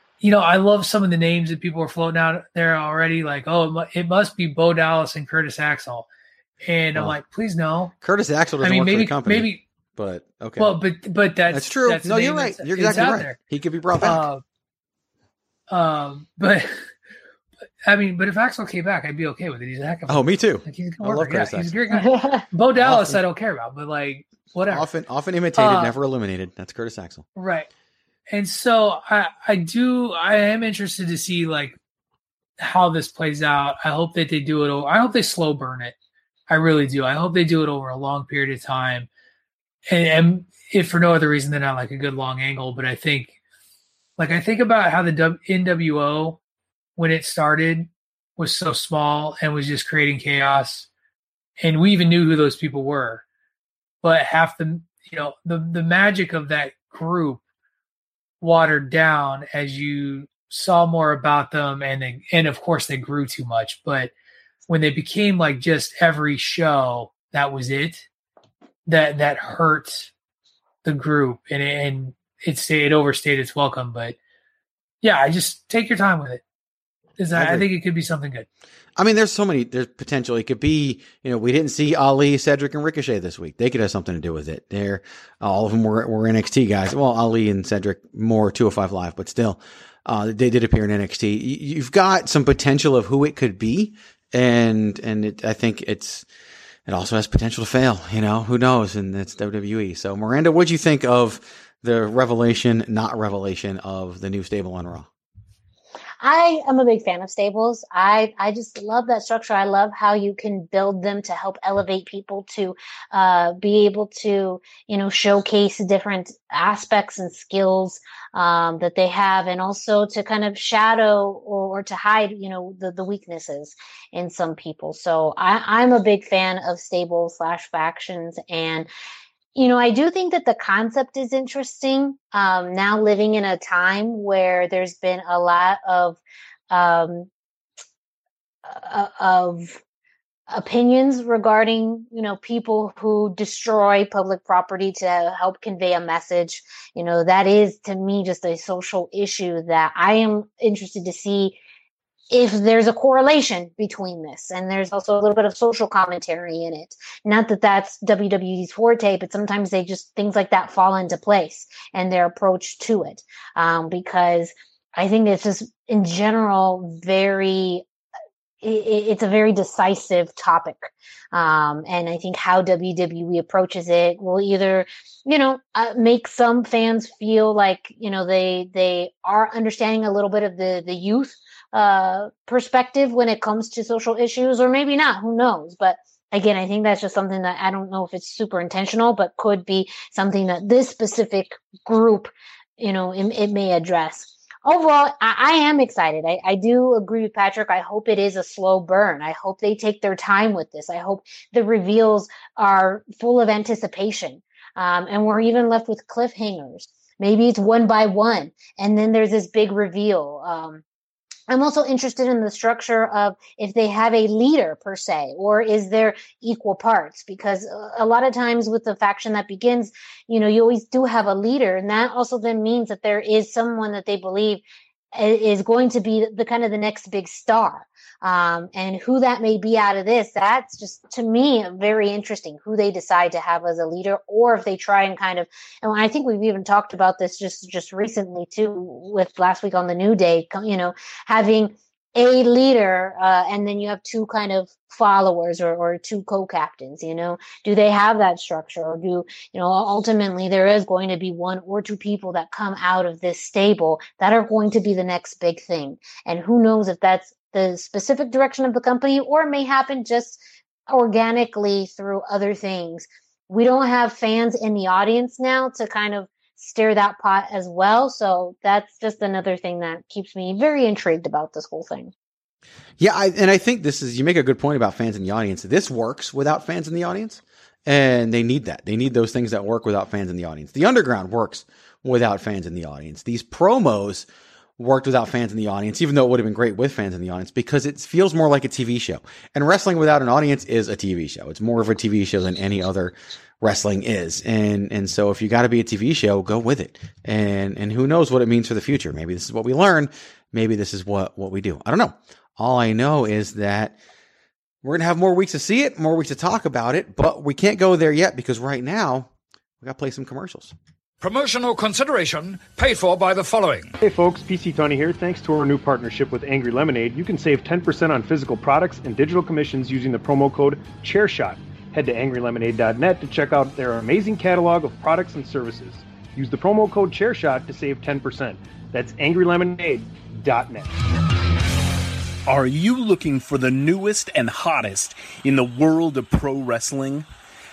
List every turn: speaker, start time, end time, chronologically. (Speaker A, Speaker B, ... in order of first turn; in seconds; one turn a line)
Speaker A: 0.2-6.1
Speaker A: 6.7-7.9
Speaker B: 8.0-10.8
Speaker A: 8.6-9.6
Speaker A: 10.6-13.4
Speaker B: 11.5-14.2
Speaker A: 14.0-14.4
Speaker A: 15.7-16.8
Speaker A: 17.9-24.9
Speaker B: 20.1-21.7
Speaker C: 21.9-22.4
Speaker B: 22.8-23.2
Speaker B: 24.7-27.2
Speaker A: 25.6-25.9
Speaker A: 27.4-27.7
Speaker A: 28.3-31.8
Speaker A: 32.6-36.0
Speaker A: 36.5-39.1
Speaker A: 39.9-43.4
Speaker A: 44.2-46.4
Speaker A: 47.0-50.9
Speaker A: 51.6-53.2
Speaker A: 54.0-57.4
Speaker A: 58.4-64.1
Speaker A: 64.7-68.1
Speaker A: 68.9-70.1
Speaker A: 70.8-74.2
Speaker A: 75.0-76.4
Speaker A: 77.2-78.5
Speaker B: 77.3-77.7
Speaker B: 79.0-96.3
Speaker B: 96.9-105.1
Speaker C: 106.2-128.9
Speaker C: 129.6-137.3
Speaker C: 138.7-139.8
Speaker C: 140.5-151.6
Speaker C: 152.3-167.8
Speaker C: 168.6-210.8
Speaker C: 211.5-272.1
Speaker B: 273.0-284.3
Speaker B: 284.8-304.0
Speaker B: 304.8-309.3
Speaker B: 309.8-310.7
Speaker D: 311.2-313.9
Speaker E: 314.0-330.9
Speaker F: 332.5-337.3